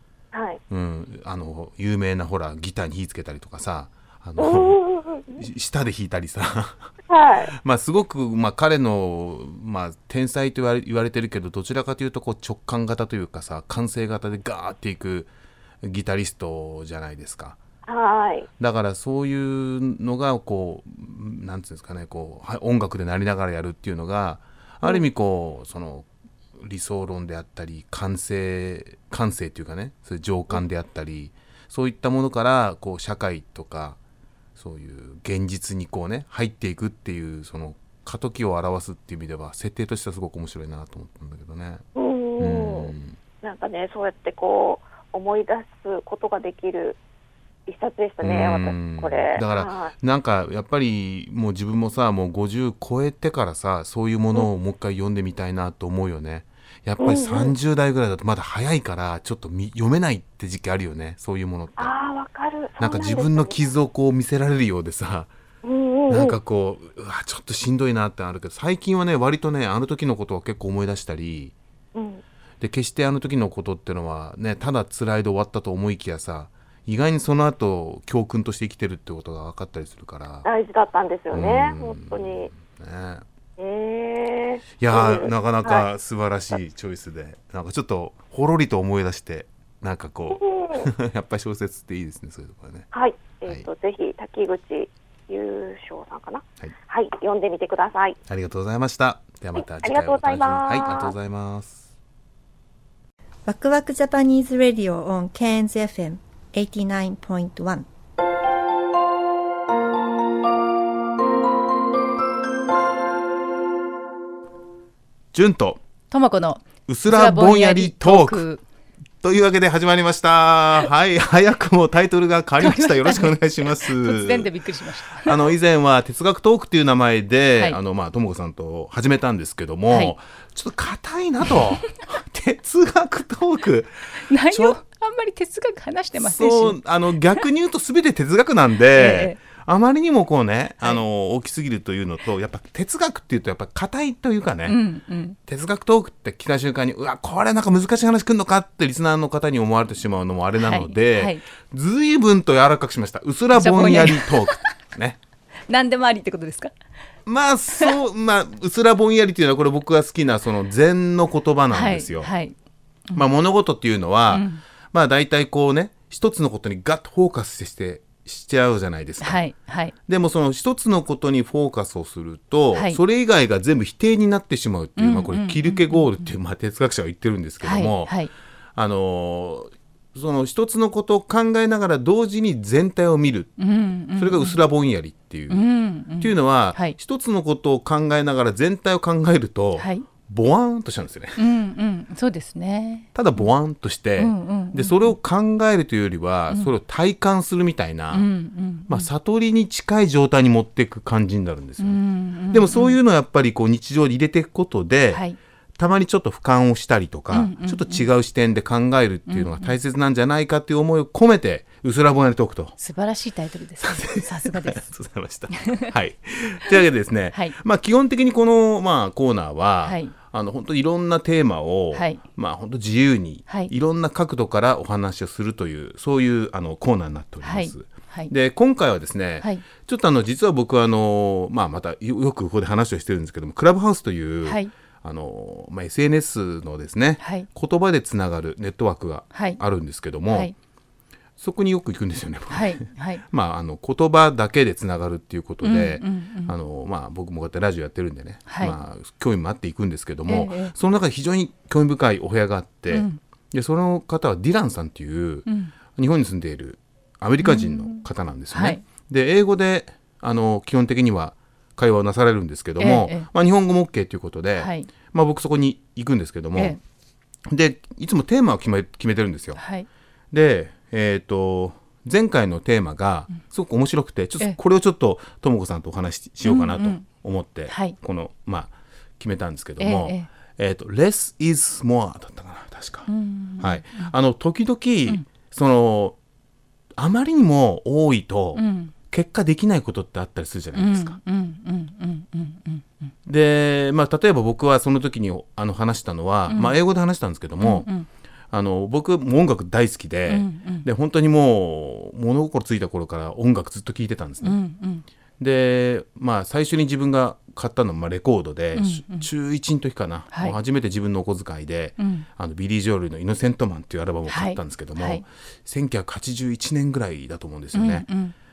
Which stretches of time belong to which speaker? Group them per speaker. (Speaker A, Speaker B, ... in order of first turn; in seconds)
Speaker A: 0.3-0.6, 4.4-5.4, 7.1-7.5, 17.9-18.5, 41.9-47.0, 47.7-49.9, 57.0-57.5, 61.8-63.7, 65.6-66.4, 71.9-72.2, 80.4-82.5, 83.6-85.9, 90.3-90.9, 92.9-98.2, 99.5-101.1
Speaker B: 0.7-4.8, 5.3-6.9, 7.5-17.6, 18.6-34.0, 34.5-41.8, 42.4-43.2, 48.2-61.9, 62.8-65.3, 66.1-71.5, 72.6-80.5, 81.3-83.2, 84.8-92.9, 98.3-101.8, 115.3-115.8, 116.9-118.4, 119.2-124.5, 125.2-134.8, 136.2-144.8, 145.4-155.2, 157.2-162.3, 163.1-169.4, 170.1-178.2, 178.7-183.6, 184.2-185.6, 186.2-191.4, 193.1-198.2, 198.9-205.2, 205.8-212.8, 213.8-240.5, 241.4-242.8, 243.3-266.8, 267.5-269.6, 270.3-286.1, 287.0-291.2, 293.2-297.9, 298.5-304.6, 305.4-318.1
Speaker C: 103.5-107.8
Speaker D: 116.1-118.6, 122.6-125.5, 134.3-136.8, 138.9-139.4, 144.7-145.4, 150.6-151.4, 153.5-154.6, 155.7-156.7, 161.7-162.5, 164.3-164.6, 169.2-169.9, 172.7-173.0, 175.0-176.3, 177.6-178.3, 183.6-184.6, 185.5-187.0, 189.8-190.1, 191.4-193.5, 194.2-195.2, 198.1-199.1, 201.8-203.0, 207.3-208.1, 209.3-209.7, 212.8-214.8, 215.5-215.9, 219.8-220.1, 221.9-222.2, 227.4-228.3, 234.4-234.7, 237.2-237.5, 239.3-239.6, 240.3-240.5, 242.5-243.2, 245.6-246.5, 248.5-248.8, 250.3-250.7, 252.9-253.2, 255.5-255.7, 257.4-258.8, 262.8-263.3, 264.6-264.9, 269.6-269.9, 276.4-277.1, 277.7-278.0, 279.8-280.3, 283.1-284.1, 288.5-288.9, 290.7-293.1, 296.5-296.8, 297.6-298.1, 300.3-300.8, 304.4-305.0, 308.8-309.3, 312.0-312.2, 314.3-315.2, 317.7-318.3